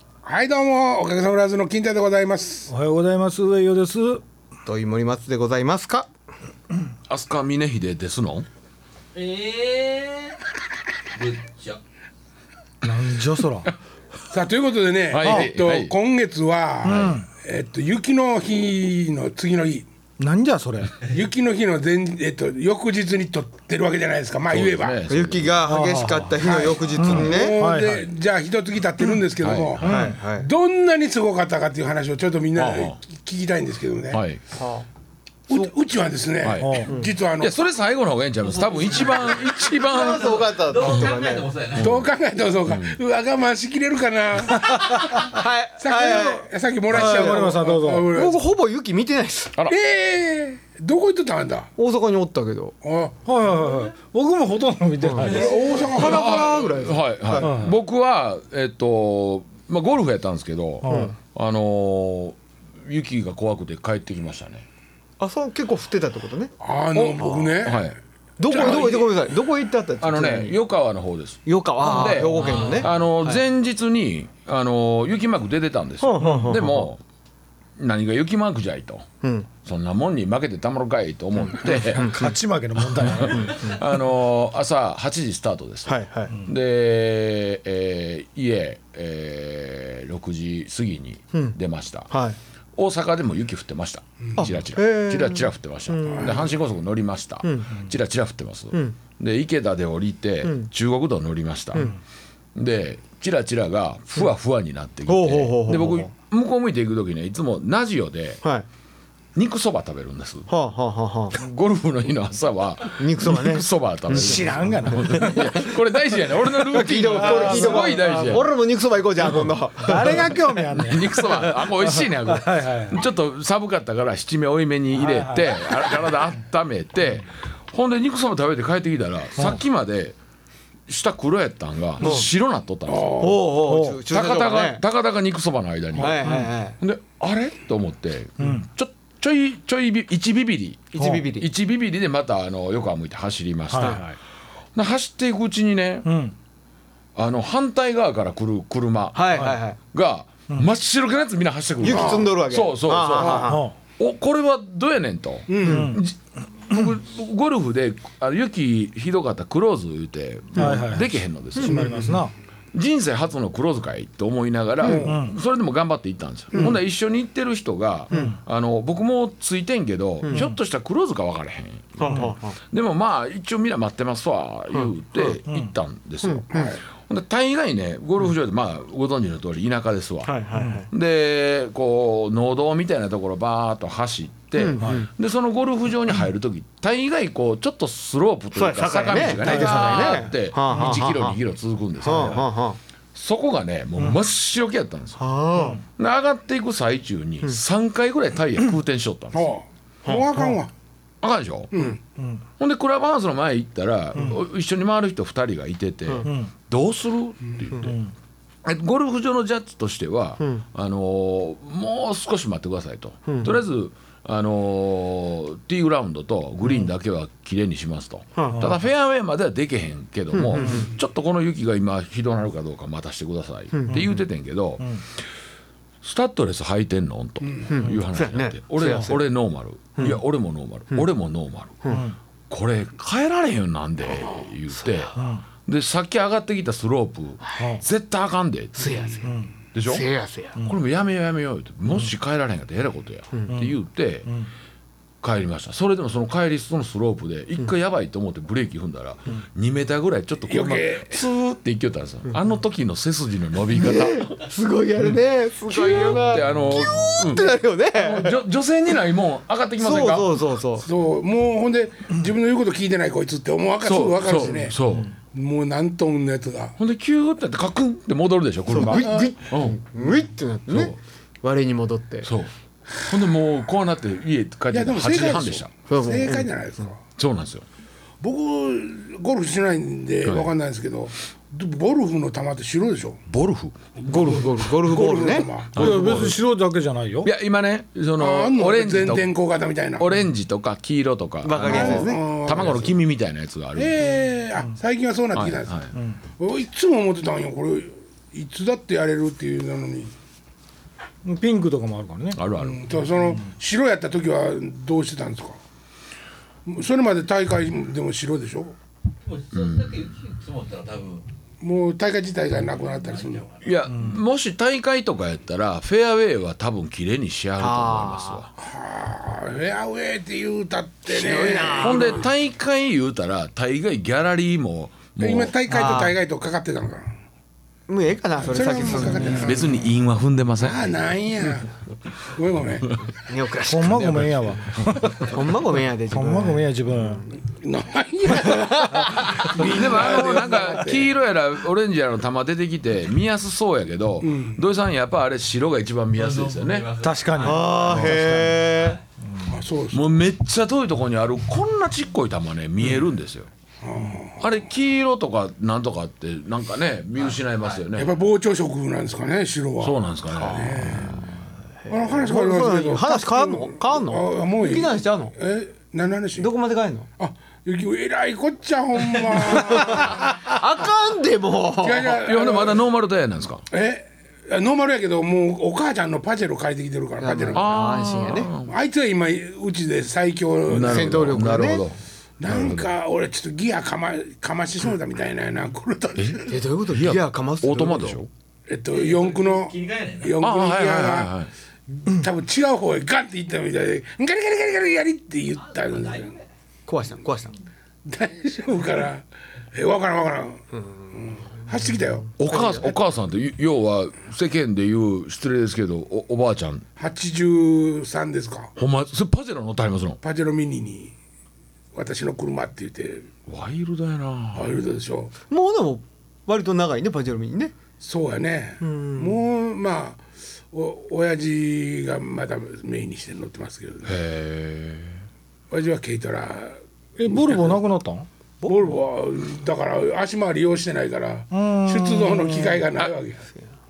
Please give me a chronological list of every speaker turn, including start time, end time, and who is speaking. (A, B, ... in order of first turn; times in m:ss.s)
0:00.2-0:02.7 A
0:02.7-0:04.2 B
0:04.6-0:06.1 C
0:07.1-0:08.5 D
0:09.1-0:10.4 E
0:11.1-0:11.8 E
0:12.8-0:13.7 B
0:14.3-0:19.8 A
0:15.1-0:15.9 D
0:15.2-0:15.5 B
0:16.8-0:17.2 B
0:16.9-0:17.2 D
0:20.2-0:21.0 B
0:21.0-0:25.0 A
0:24.5-0:25.8 D
0:25.1-0:27.5 C
0:25.7-0:28.1 B
0:26.4-0:34.2 A
0:29.4-0:30.1 D
0:29.8-0:30.2 B
0:29.8-0:30.5 C
0:32.6-0:33.0 D
0:34.1-0:34.4 D
0:34.5-0:34.9 C
0:35.5-0:37.5 A
0:36.4-0:36.9 D
0:36.6-0:36.9 B
0:37.4-0:40.4 D
0:38.4-0:41.9 E
0:39.8-0:41.5 C
0:41.8-0:42.1 D
0:41.8-0:45.2 A
0:42.6-0:43.0 D
0:44.7-0:45.3 B
0:45.3-0:47.5 C
0:45.8-0:48.4 A
0:46.9-0:48.1 B
0:48.1-0:49.5 C
0:49.7-0:51.7 A
0:51.8-0:52.7 C
0:52.8-0:53.2 A
0:53.2-0:55.9 B
0:55.0-0:57.6 C
0:55.2-0:56.3 A
0:55.3-0:56.0 E
0:56.0-1:04.7 D
0:57.4-0:57.8 B
1:00.8-1:01.1 B
1:00.8-1:01.1 C
1:05.2-1:06.5 C
1:06.6-1:07.9 A
1:06.9-1:08.0 D
1:08.4-1:10.6 C
1:08.5-1:09.2 A
1:08.5-1:09.0 D
1:10.0-1:17.0 D
1:11.4-1:13.4 C
1:12.3-1:12.9 E
1:16.0-1:16.8 C
1:17.8-1:19.0 D
1:19.2-1:19.5 C
1:19.6-1:22.2 D
1:21.4-1:22.3 C
1:22.0-1:23.8 B
1:22.8-1:32.1 D
1:25.8-1:26.4 C
1:32.1-1:32.4 C
1:32.8-1:41.9 D
1:34.3-1:36.5 C
1:36.1-1:36.5 A
1:37.4-1:37.8 C
1:38.7-1:39.0 C
1:40.4-1:40.7 C
1:42.5-1:48.4 D
1:45.1-1:46.1 C
1:49.3-1:50.5 D
1:50.5-1:51.4 C
1:51.3-1:58.5 D
1:53.0-1:54.4 C
1:54.1-1:55.6 B
1:55.0-1:55.7 C
1:56.7-2:00.5 C
1:56.7-1:58.4 B
1:59.8-2:03.0 B
2:00.2-2:10.2 D
2:05.0-2:05.4 B
2:10.9-2:13.3 D
2:12.0-2:12.3 C
2:12.8-2:13.4 A
2:13.2-2:14.8 C
2:13.5-2:14.0 B
2:14.1-2:24.2 D
2:16.0-2:16.8 C
2:16.2-2:16.5 B
2:18.4-2:18.6 B
2:20.9-2:21.5 C
2:23.7-2:24.1 B
2:24.7-2:26.1 D
2:26.0-2:26.3 B
2:27.1-2:36.2 D
2:29.1-2:29.8 C
2:31.8-2:33.6 C
2:31.8-2:32.3 A
2:33.2-2:33.4 A
2:33.3-2:33.7 B
2:35.5-2:35.9 A
2:35.6-2:36.0 C
2:35.6-2:36.0 B
2:36.7-2:42.1 D
2:40.5-2:40.8 C
2:40.6-2:42.3 B
2:41.5-2:42.2 C
2:42.7-3:12.5 D
2:44.8-2:45.2 A
2:44.9-2:45.4 B
2:50.2-2:50.5 C
2:52.0-2:52.6 C
2:52.0-2:52.3 B
2:54.7-2:55.4 C
2:56.2-2:56.7 C
2:56.5-2:56.8 A
3:00.2-3:00.9 C
3:04.5-3:05.1 C
3:08.5-3:11.4 C
3:09.4-3:09.7 A
3:09.4-3:10.9 B
3:12.0-3:12.8 C
3:13.1-3:15.2 D
3:15.2-3:15.8 C
3:16.0-3:19.5 D
3:19.3-3:20.7 A
3:21.2-3:21.7 D
3:21.7-3:22.0 A
3:22.6-3:28.0 D
3:24.1-3:24.4 B
3:26.2-3:26.5 B
3:27.8-3:28.1 B
3:28.6-3:45.2 D
3:30.4-3:30.6 C
3:33.3-3:33.6 C
3:38.4-3:38.7 C
3:38.5-3:38.8 B
3:40.3-3:40.9 C
3:43.7-3:44.1 C
3:46.0-3:59.0 D
3:47.7-3:49.3 C
3:50.0-3:50.2 C
3:51.9-3:52.2 B
3:54.7-3:55.2 C
3:55.2-3:55.4 B
3:58.8-3:59.3 C
3:59.2-3:59.5 B
3:59.7-4:00.1 D
3:59.9-4:00.6 C
4:00.6-4:04.3 D
4:05.2-4:14.3 D
4:10.5-4:11.2 A
4:13.7-4:18.4 C
4:15.6-4:20.4 D
4:19.8-4:20.9 C
4:20.8-4:24.8 A
4:23.8-4:25.1 D
4:25.3-4:26.7 A
4:26.8-4:29.8 D
4:28.7-4:32.3 C
4:28.9-4:29.3 A
4:30.7-4:31.0 D
4:32.2-4:35.7 D
4:34.7-4:37.0 A
4:35.9-4:36.5 C
4:37.2-4:37.6 D
4:38.2-4:43.2 A
4:40.2-4:40.5 D
4:43.3-4:44.4 D
4:44.0-4:45.5 C
4:44.2-4:46.4 A
4:45.7-4:46.4 D
4:45.8-4:47.3 B
4:47.2-4:49.3 D
4:48.2-4:50.1 A
4:50.0-4:54.0 D
4:51.4-4:52.2 C
4:51.6-4:53.0 A
4:53.7-4:55.8 A
4:55.3-4:55.9 D
4:56.4-5:00.1 A
5:01.2-5:02.4 B
5:02.3-5:02.9 D
5:02.6-5:05.6 A
5:06.6-5:08.7 A
5:09.2-5:11.2 E
5:09.5-5:10.1 D
5:11.6-5:13.5 A
5:13.0-5:13.7 E
5:13.6-5:18.5 D
5:13.9-5:14.2 B
5:17.6-5:18.4 C
5:18.6-5:22.3 A
5:21.1-5:22.2 C
5:21.8-5:25.5 D
5:25.2-5:27.1 A
5:25.7-5:26.1 C
5:25.7-5:26.0 B
5:27.9-5:29.6 C
5:28.5-5:29.9 A
5:29.4-5:30.8 D
5:30.6-5:31.7 A
5:32.3-5:33.0 A
5:33.2-5:34.4 C
5:33.6-5:35.5 B
5:34.0-5:34.3 D
5:35.2-5:37.2 C
5:36.1-5:37.2 B
5:37.5-5:41.1 A
5:38.4-5:39.5 C
5:39.4-5:46.9 D
5:39.8-5:40.5 B
5:44.2-5:44.6 A
5:46.2-5:49.0 E
5:47.0-5:48.6 B
5:47.4-5:49.0 C
5:49.5-5:50.0 A
5:49.9-5:53.5 D
5:53.8-5:54.5 A
5:54.4-5:58.1 D
5:57.2-5:57.8 E
5:57.9-6:01.2 A
5:59.8-6:01.2 D
6:00.3-6:01.2 C
6:01.8-6:05.3 C
6:01.9-6:06.5 A
6:06.4-6:07.1 C
6:07.2-6:10.3 A
6:09.5-6:12.2 C
6:11.8-6:12.8 A
6:12.2-6:13.6 D
6:13.7-6:17.6 A
6:17.2-6:18.5 C
6:17.5-6:18.7 D
6:18.7-6:21.3 A
6:20.7-6:22.9 D
6:20.8-6:21.8 C
6:22.4-6:26.6 A
6:26.2-6:28.3 D
6:26.5-6:28.2 C
6:28.7-6:31.3 A
6:28.9-6:30.4 E
6:30.4-6:31.5 D
6:31.9-6:36.4 A
6:35.7-6:36.4 E
6:36.9-6:37.5 C
6:38.0-6:42.8 A
6:42.4-6:46.8 D
6:47.0-6:48.7 A
6:48.8-6:50.2 D
6:50.2-6:51.1 A
6:51.9-6:53.3 A
6:53.5-6:54.7 D
6:54.5-6:55.3 A
6:55.5-6:57.7 C
6:58.0-7:00.2 A
6:58.8-6:59.4 C
7:00.7-7:04.2 A
7:04.0-7:05.2 D
7:05.7-7:07.8 A
7:07.2-7:08.3 B
7:08.6-7:13.4 A
7:11.5-7:12.8 B